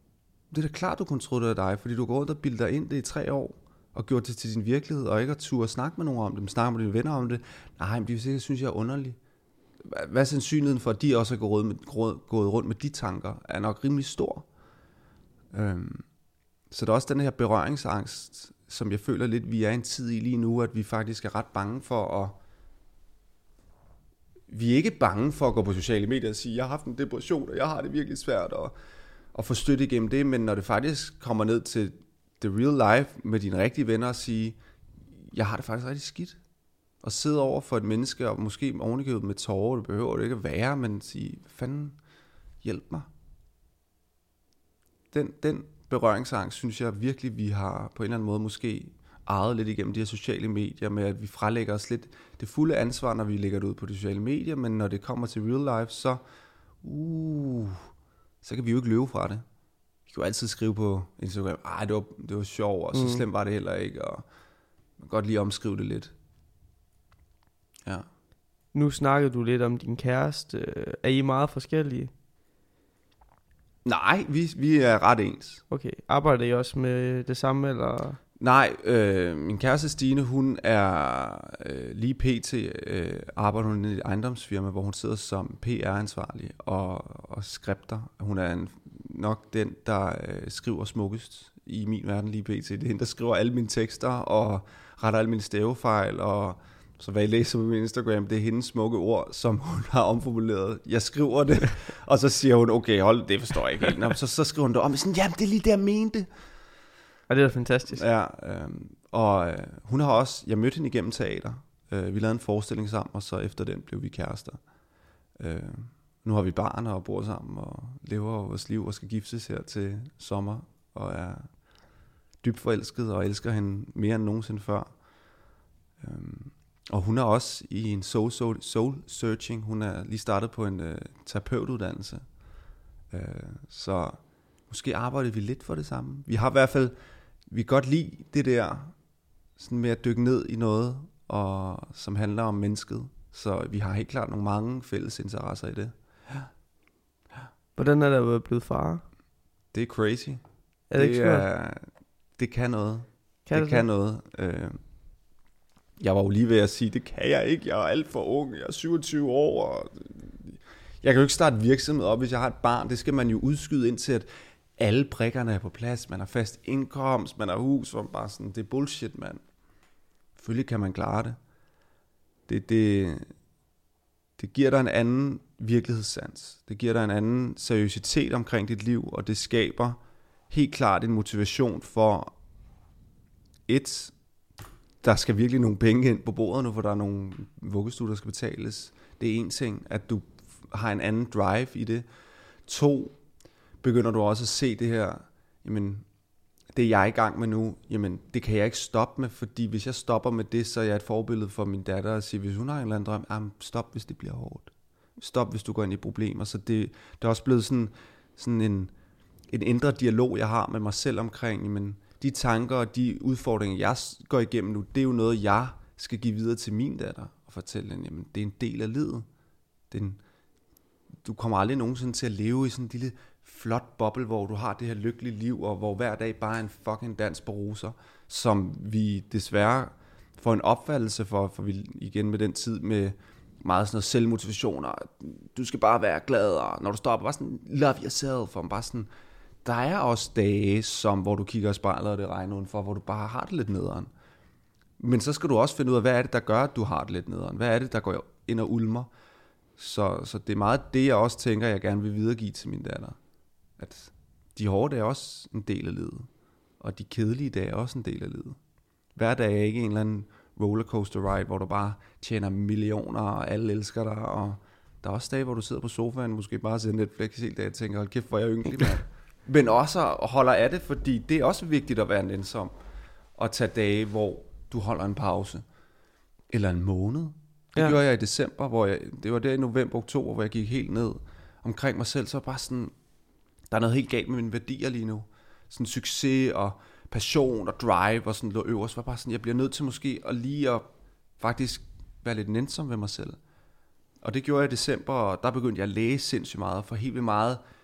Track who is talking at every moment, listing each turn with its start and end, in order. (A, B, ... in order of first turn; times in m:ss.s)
0:00.5-0:09.2 A
0:09.8-0:14.5 A
0:15.5-0:16.1 A
0:16.7-0:22.4 A
0:24.5-0:28.7 A
0:29.3-0:34.6 A
0:35.2-0:36.4 A
0:37.0-0:42.0 A
0:42.6-0:43.1 A
0:45.1-0:56.2 A
0:56.8-0:57.9 A
0:58.4-0:59.4 A
1:00.1-1:04.2 A
1:02.9-1:03.2 B
1:05.0-1:06.1 A
1:08.7-1:12.1 B
1:13.8-1:15.6 A
1:15.7-1:18.2 B
1:18.4-1:46.3 A
1:47.3-1:48.0 B
1:47.9-1:54.6 A
1:55.4-2:01.5 A
2:02.4-2:04.9 A
2:06.0-2:12.2 A
2:13.1-2:17.0 A
2:17.5-2:18.9 A
2:19.6-2:26.5 A
2:27.8-2:29.0 B
2:29.7-2:30.4 A
2:30.9-2:31.5 B
2:30.9-2:34.8 A
2:33.5-2:33.8 B
2:36.0-2:49.4 A
2:50.4-2:51.4 A
2:52.5-2:53.3 A
2:54.4-3:00.0 A
3:00.5-3:02.3 A
3:03.7-3:04.1 A
3:05.0-3:12.0 A
3:12.7-3:13.2 A
3:13.8-3:16.0 A
3:16.7-3:28.9 A
3:29.5-3:39.3 A
3:39.9-3:40.2 A
3:41.2-3:59.1 A
3:59.6-4:04.1 A
4:05.0-4:09.1 A
4:09.8-4:13.2 A
4:13.8-4:16.3 A
4:16.8-4:18.6 A
4:19.2-4:32.7 A
4:33.4-4:35.6 A
4:36.5-4:42.9 A
4:43.7-4:50.8 A
4:51.4-4:53.4 A
4:54.2-4:57.6 A